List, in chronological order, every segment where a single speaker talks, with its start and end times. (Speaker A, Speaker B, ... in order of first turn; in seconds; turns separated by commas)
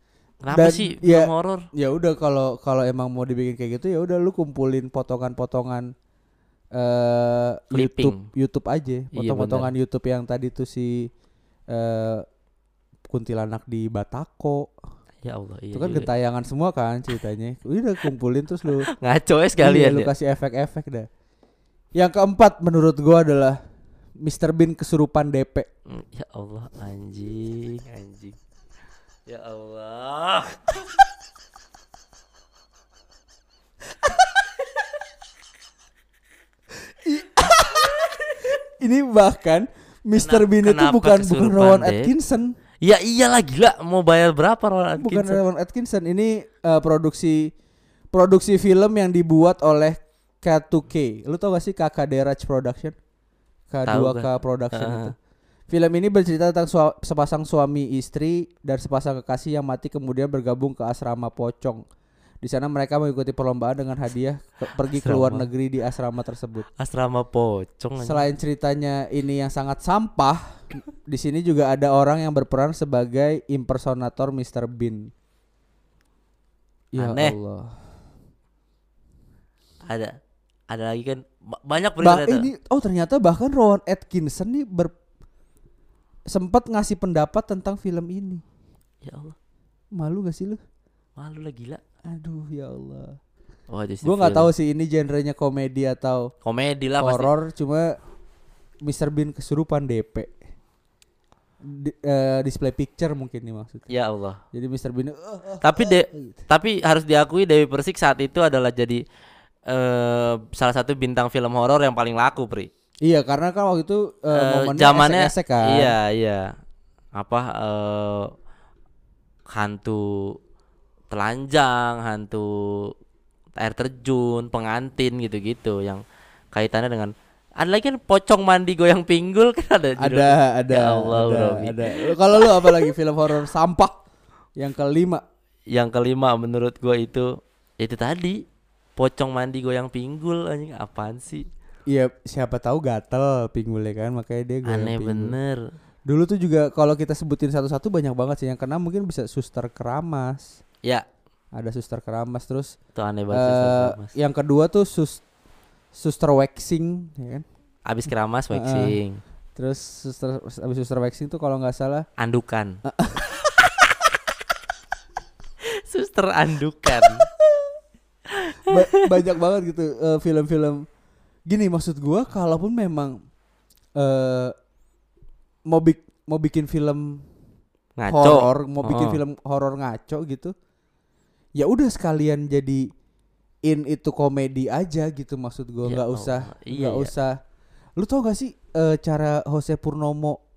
Speaker A: 0.4-1.7, Speaker B: 0.5-5.9, Speaker B: 6.7-11.1, Speaker A: 7.7-8.3, Speaker A: 9.1-9.7, Speaker B: 11.7-12.2, Speaker B: 13.1-14.7, Speaker A: 15.2-16.1, Speaker B: 15.7-18.9, Speaker A: 18.9-20.1, Speaker B: 19.6-21.1, Speaker B: 21.9-23.6, Speaker B: 24.2-25.7, Speaker A: 25.9-28.4, Speaker A: 29.3-30.7, Speaker B: 36.9-42.5, Speaker A: 40.2-42.1, Speaker A: 42.8-45.4, Speaker B: 45.0-47.5, Speaker B: 48.1-53.0, Speaker B: 53.7-55.2, Speaker A: 53.9-55.1, Speaker B: 55.7-61.8, Speaker B: 62.4-66.7, Speaker A: 64.9-65.5, Speaker A: 66.8-68.2, Speaker B: 68.0-75.1, Speaker B: 76.9-77.8, Speaker A: 77.0-77.4, Speaker A: 79.8-80.2, Speaker A: 80.7-82.5, Speaker B: 82.0-84.9, Speaker B: 86.3-88.4, Speaker A: 89.0-89.4, Speaker B: 89.9-90.6, Speaker A: 91.2-91.8, Speaker B: 92.1-93.2, Speaker A: 93.7-94.5, Speaker B: 94.0-96.3, Speaker A: 96.5-97.3, Speaker B: 97.0-98.0, Speaker B: 98.8-100.3, Speaker B: 101.6-103.9, Speaker A: 103.9-104.4, Speaker B: 104.5-106.4, Speaker A: 105.6-109.0, Speaker A: 109.7-112.7, Speaker B: 113.0-116.0, Speaker A: 114.3-116.5, Speaker A: 117.2-118.3, Speaker A: 119.5-120.4, Speaker A: 121.1-122.9, Speaker A: 123.6-126.0, Speaker A: 126.5-132.9, Speaker B: 130.0-134.0, Speaker B: 134.6-135.2, Speaker A: 135.7-138.4, Speaker A: 139.0-141.5, Speaker B: 141.9-145.3, Speaker A: 144.7-145.6, Speaker B: 146.1-150.6, Speaker B: 151.5-152.8, Speaker A: 152.9-154.1, Speaker B: 153.3-155.2, Speaker B: 155.9-157.4, Speaker A: 157.9-159.2, Speaker B: 158.5-159.0, Speaker B: 159.6-162.1, Speaker A: 162.2-162.8, Speaker B: 162.8-163.4, Speaker A: 165.8-167.3, Speaker A: 168.3-169.1, Speaker B: 168.6-170.8, Speaker B: 171.5-173.2, Speaker B: 174.0-174.6, Speaker B: 175.7-177.3, Speaker A: 178.0-179.2, Speaker B: 178.1-180.5, Speaker B: 181.6-182.9, Speaker B: 183.7-187.4, Speaker A: 185.8-187.1, Speaker B: 188.0-190.4